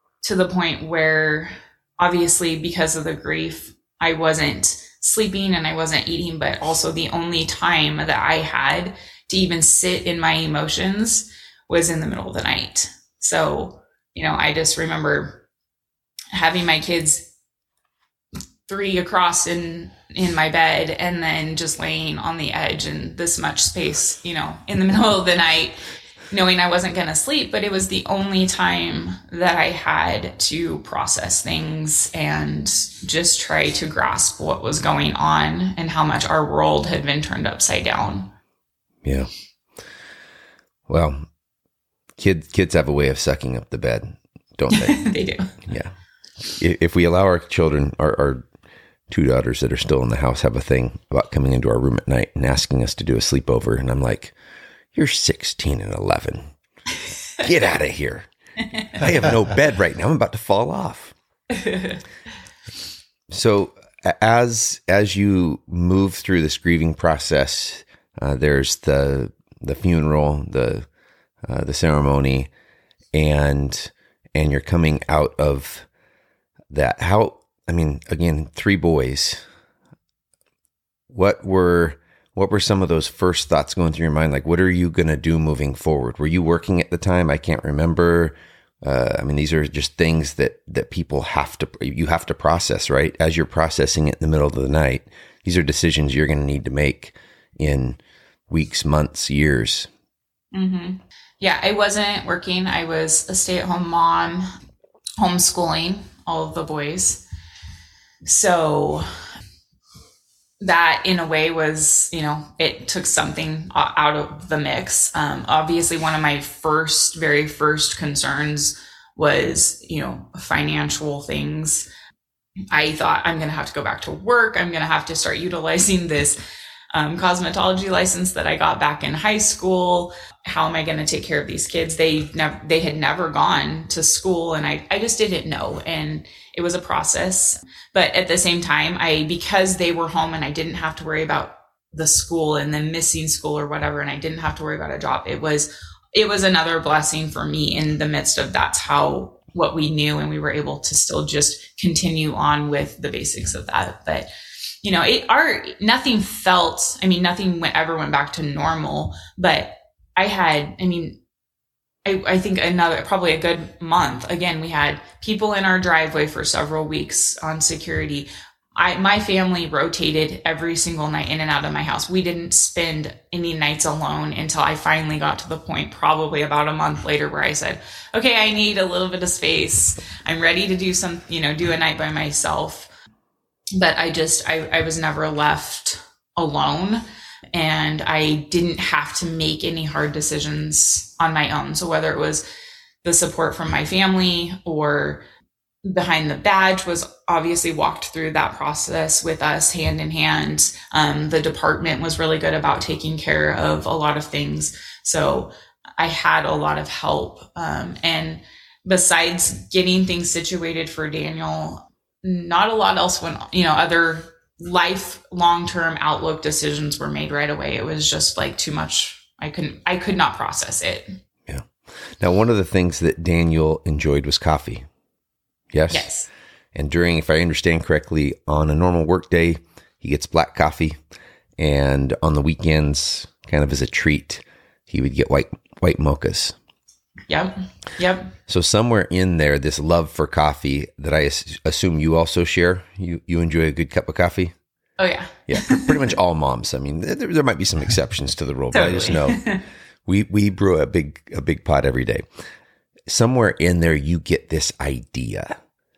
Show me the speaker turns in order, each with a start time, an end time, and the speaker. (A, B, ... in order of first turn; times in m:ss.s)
0:00.2-0:15.4 A
0:16.3-0:17.2 A
0:18.7-0:25.8 A
0:26.3-0:38.3 A
0:39.0-0:39.3 B
0:40.9-0:41.3 B
0:42.2-0:45.0 B
0:44.7-0:45.5 A
0:45.7-0:45.9 B
0:46.5-0:48.5 B
0:49.1-0:54.3 B
0:54.9-0:56.5 B
0:57.4-0:58.3 B
0:58.9-1:01.1 B
1:01.6-1:02.0 A
1:03.3-1:10.9 B
1:11.4-1:12.5 B
1:13.1-1:15.9 B
1:16.7-1:19.4 B
1:21.1-1:38.0 B
1:38.5-1:39.9 B
1:40.5-1:44.5 A
1:45.2-1:47.2 A
1:48.2-1:49.1 A
1:50.6-2:01.9 A
2:02.7-2:06.4 A
2:06.9-2:34.3 A
2:34.8-2:41.2 A
2:42.0-3:02.9 A
3:03.7-3:12.4 A
3:13.0-3:15.2 A
3:15.8-3:41.1 A
3:42.2-3:44.9 B
3:45.7-3:46.1 B
3:45.9-3:46.3 A
3:46.8-3:51.0 B
3:51.6-3:56.6 B
3:57.3-3:58.3 A
3:58.5-4:04.5 B
4:05.0-4:06.1 A
4:05.5-4:09.4 B
4:08.7-4:09.6 A
4:10.1-4:12.2 B
4:13.1-4:15.6 B